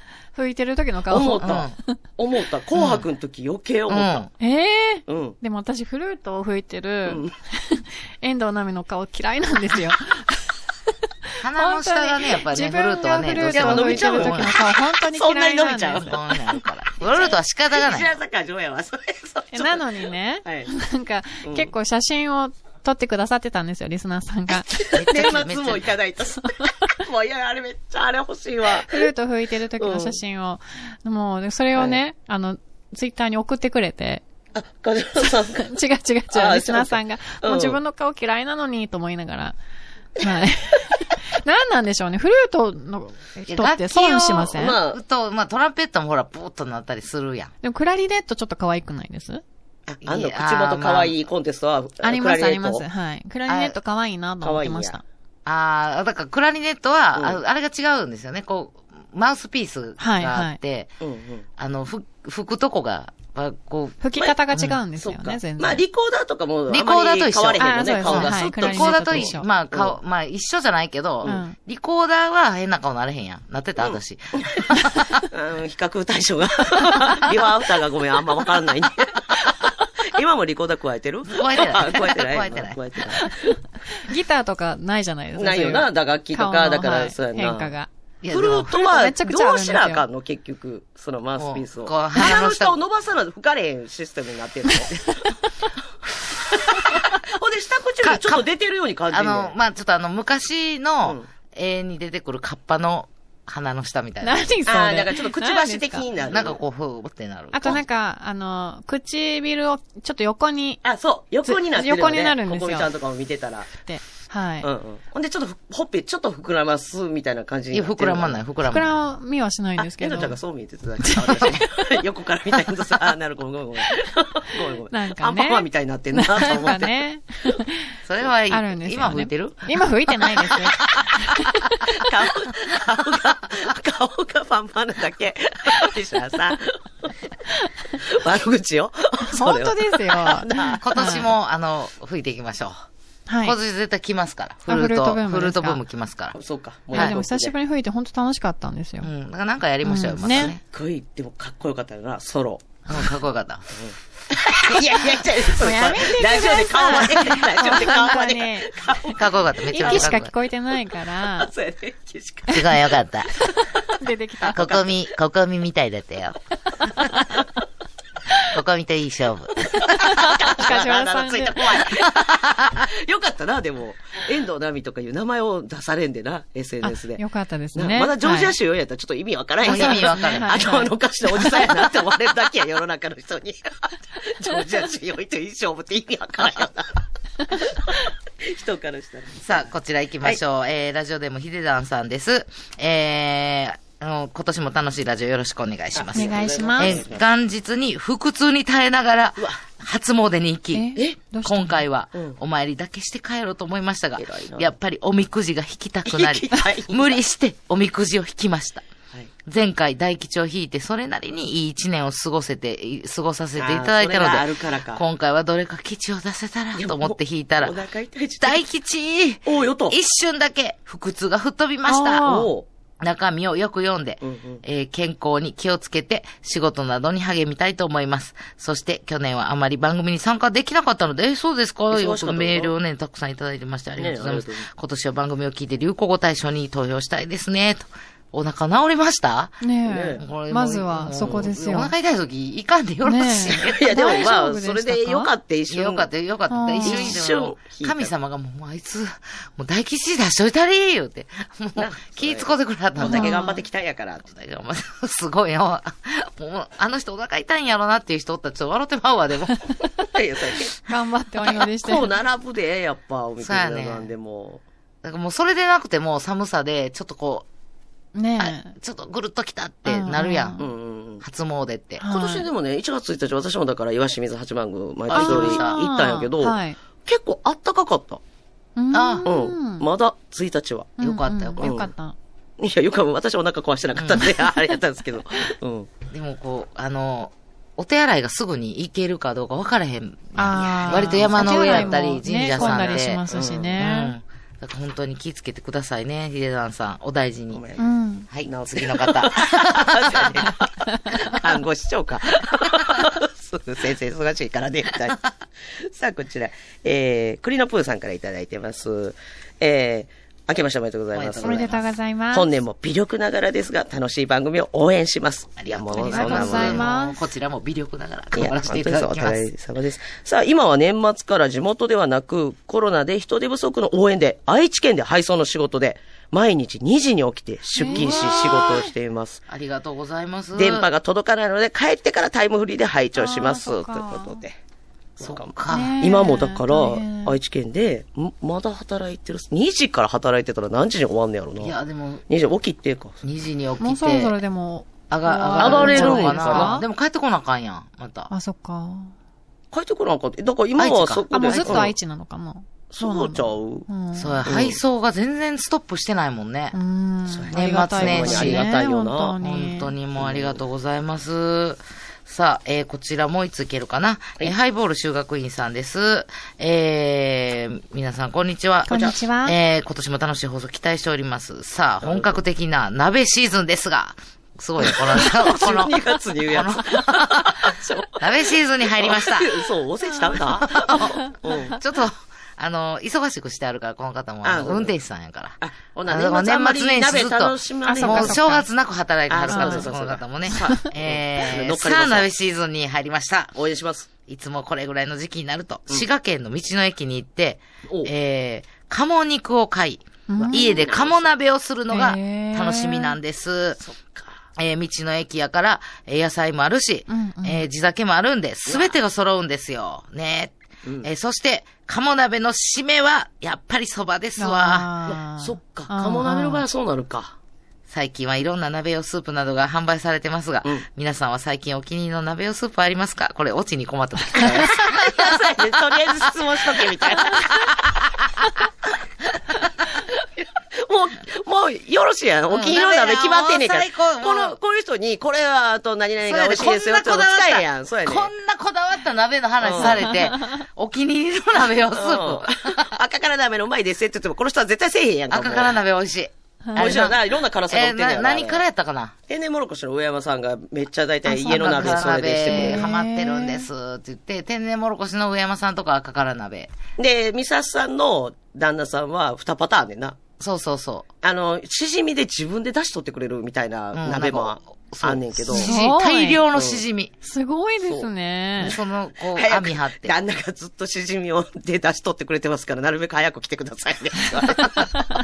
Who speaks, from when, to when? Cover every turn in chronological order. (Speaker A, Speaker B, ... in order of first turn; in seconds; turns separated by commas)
Speaker A: 0.3-2.0, Speaker B: 1.1-4.3, Speaker C: 1.4-1.7, Speaker C: 2.8-3.0, Speaker C: 3.9-4.3, Speaker A: 4.4-10.6, Speaker B: 5.1-5.4, Speaker B: 7.0-7.3, Speaker A: 11.3-16.2, Speaker C: 11.4-14.7, Speaker B: 13.3-14.5, Speaker B: 15.0-16.4, Speaker C: 15.9-18.1, Speaker B: 17.0-19.9, Speaker A: 19.5-24.8, Speaker B: 20.4-20.7, Speaker B: 21.4-21.7, Speaker B: 24.7-29.1, Speaker C: 24.9-25.9, Speaker A: 26.4-26.7, Speaker A: 28.8-34.2, Speaker B: 29.8-30.2, Speaker B: 34.5-35.7, Speaker A: 35.2-39.6, Speaker B: 36.3-37.8, Speaker A: 40.2-44.8, Speaker C: 43.5-47.5, Speaker B: 44.5-45.0, Speaker A: 47.6-49.4, Speaker B: 49.9-52.8, Speaker C: 50.0-51.1, Speaker A: 52.0-55.0, Speaker C: 53.5-53.8, Speaker B: 54.4-55.0, Speaker C: 55.5-60.9, Speaker B: 57.1-57.4, Speaker A: 60.0-60.6, Speaker B: 61.0-61.5, Speaker C: 61.6-64.0, Speaker A: 64.0-65.8, Speaker B: 65.0-69.9, Speaker C: 66.7-75.1, Speaker A: 67.6-69.5, Speaker A: 71.2-71.5, Speaker B: 73.8-83.5, Speaker C: 81.3-82.8, Speaker A: 83.2-87.9, Speaker B: 85.3-87.7, Speaker C: 88.2-88.7, Speaker B: 88.3-95.3, Speaker A: 88.7-90.0, Speaker C: 91.4-92.8, Speaker B: 96.3-99.5, Speaker C: 98.0-98.5, Speaker C: 99.1-104.5, Speaker A: 104.2-106.1, Speaker B: 104.7-106.6, Speaker C: 106.3-107.8, Speaker A: 107.5-110.8, Speaker B: 110.8-113.7, Speaker A: 111.4-112.9, Speaker A: 113.8-114.7, Speaker B: 114.6-118.4, Speaker C: 117.7-119.0, Speaker A: 118.6-120.4, Speaker B: 119.8-127.6, Speaker A: 121.0-122.0, Speaker A: 124.6-128.0, Speaker C: 128.0-129.8, Speaker A: 128.5-131.9, Speaker B: 131.8-137.2, Speaker A: 137.5-137.9, Speaker B: 137.9-140.8, Speaker A: 139.3-141.3, Speaker C: 140.8-142.8, Speaker A: 143.3-143.6, Speaker C: 143.4-146.4, Speaker A: 144.7-145.8, Speaker B: 146.3-147.5, Speaker C: 146.9-147.2, Speaker A: 146.9-149.1, Speaker C: 149.0-150.6, Speaker A: 149.8-150.5, Speaker B: 150.3-152.7, Speaker C: 152.9-153.7, Speaker B: 153.7-160.1, Speaker C: 154.5-155.0, Speaker A: 155.6-159.1, Speaker C: 159.2-160.3, Speaker A: 159.7-161.5, Speaker B: 161.2-162.7, Speaker C: 162.5-163.4, Speaker A: 163.5-164.7, Speaker B: 164.4-165.1, Speaker C: 164.5-167.1, Speaker C: 168.5-169.8, Speaker B: 169.6-177.2, Speaker A: 169.9-171.9, Speaker C: 172.1-172.8, Speaker A: 177.2-178.5, Speaker B: 177.7-189.7, Speaker A: 179.6-181.7, Speaker C: 179.6-180.7, Speaker C: 189.4-208.8, Speaker B: 195.9-197.2, Speaker A: 196.1-197.0, Speaker A: 200.7-201.8, Speaker B: 204.2-204.7, Speaker B: 206.0-207.2, Speaker C: 209.4-217.8, Speaker B: 213.6-215.0, Speaker B: 216.8-218.6, Speaker C: 218.4-222.3, Speaker B: 219.4-219.9, Speaker A: 221.9-222.5, Speaker B: 222.2-222.7, Speaker C: 223.0-239.6, Speaker B: 224.2-224.6, Speaker B: 231.9-232.7, Speaker B: 234.0-234.7, Speaker A: 239.6-241.9, Speaker B: 239.8-240.2, Speaker C: 240.2-243.6, Speaker A: 243.0-245.3, Speaker B: 243.5-246.1, Speaker C: 245.7-253.4, Speaker A: 246.5-247.2, Speaker B: 246.8-248.1, Speaker B: 251.8-254.3, Speaker A: 253.0-253.6, Speaker C: 254.3-259.6, Speaker B: 260.1-260.8, Speaker A: 260.9-262.1, Speaker B: 261.8-264.6, Speaker C: 263.4-264.1, Speaker C: 265.0-267.4, Speaker A: 268.1-268.7, Speaker C: 268.4-270.6, Speaker A: 269.9-270.6, Speaker B: 270.6-271.2, Speaker C: 271.2-272.0, Speaker A: 272.0-272.5, Speaker B: 272.0-278.2, Speaker C: 275.1-275.8, Speaker A: 275.1-276.8, Speaker A: 278.8-279.9, Speaker C: 278.9-279.3, Speaker B: 279.2-281.0, Speaker A: 281.0-282.1, Speaker C: 281.0-281.7, Speaker B: 281.6-281.9, Speaker B: 282.6-285.9, Speaker C: 283.9-284.2, Speaker C: 286.1-293.2, Speaker A: 290.4-294.1, Speaker B: 290.6-292.0, Speaker B: 292.5-293.8, Speaker C: 293.8-297.6, Speaker B: 297.5-297.9, Speaker A: 297.8-298.3, Speaker C: 298.3-300.5, Speaker B: 298.4-311.8, Speaker C: 311.1-311.9, Speaker A: 311.4-312.5, Speaker B: 312.3-316.9, Speaker C: 315.6-319.5, Speaker A: 316.0-317.2, Speaker B: 318.3-329.4, Speaker A: 327.8-328.3, Speaker C: 327.8-328.9, Speaker C: 329.5-330.9, Speaker B: 330.6-334.6, Speaker A: 333.1-334.4, Speaker B: 335.2-341.8, Speaker C: 335.2-336.1, Speaker A: 335.7-337.4, Speaker C: 341.6-342.2, Speaker B: 342.3-343.2, Speaker C: 343.2-344.4, Speaker A: 343.8-346.8, Speaker C: 345.1-348.3, Speaker B: 345.6-346.8, Speaker A: 348.3-349.1, Speaker B: 349.7-351.9, Speaker C: 350.8-351.9, Speaker A: 351.3-354.4, Speaker B: 352.9-353.9, Speaker C: 354.1-356.8, Speaker B: 354.4-354.8, Speaker A: 356.7-359.9, Speaker B: 357.3-359.4, Speaker C: 357.5-358.7, Speaker C: 359.4-379.6, Speaker B: 360.2-360.6, Speaker A: 368.9-369.6, Speaker B: 368.9-369.1, Speaker B: 372.0-372.3, Speaker B: 374.8-378.3, Speaker B: 378.9-381.8, Speaker C: 380.6-385.6, Speaker B: 384.4-384.9, Speaker B: 385.6-388.5, Speaker C: 386.1-393.6, Speaker A: 387.9-388.7, Speaker B: 389.3-392.3, Speaker A: 389.5-389.9, Speaker A: 390.5-390.8, Speaker B: 393.5-394.1, Speaker C: 394.3-403.8, Speaker A: 400.3-400.8, Speaker B: 400.4-401.2, Speaker A: 401.9-403.1, Speaker B: 403.8-404.4, Speaker C: 404.6-414.9, Speaker A: 407.1-407.6, Speaker B: 408.7-408.9, Speaker A: 414.4-416.6, Speaker B: 415.0-417.3, Speaker C: 417.9-425.4, Speaker B: 424.3-428.0, Speaker C: 426.1-427.5, Speaker B: 429.9-438.3, Speaker C: 432.5-434.6, Speaker C: 436.2-442.9, Speaker B: 439.6-440.1, Speaker A: 439.8-440.4, Speaker B: 441.9-445.8, Speaker C: 445.3-449.1, Speaker A: 446.6-446.9, Speaker B: 446.7-448.6, Speaker B: 449.3-452.8, Speaker A: 451.3-453.7, Speaker C: 451.5-456.7, Speaker B: 457.0-460.2, Speaker C: 460.4-461.1, Speaker B: 461.2-465.8, Speaker C: 463.9-467.1, Speaker A: 465.5-466.4, Speaker B: 466.5-466.8, Speaker A: 467.2-468.8, Speaker B: 467.8-468.1, Speaker C: 468.6-470.1, Speaker B: 469.3-474.9, Speaker C: 474.4-474.9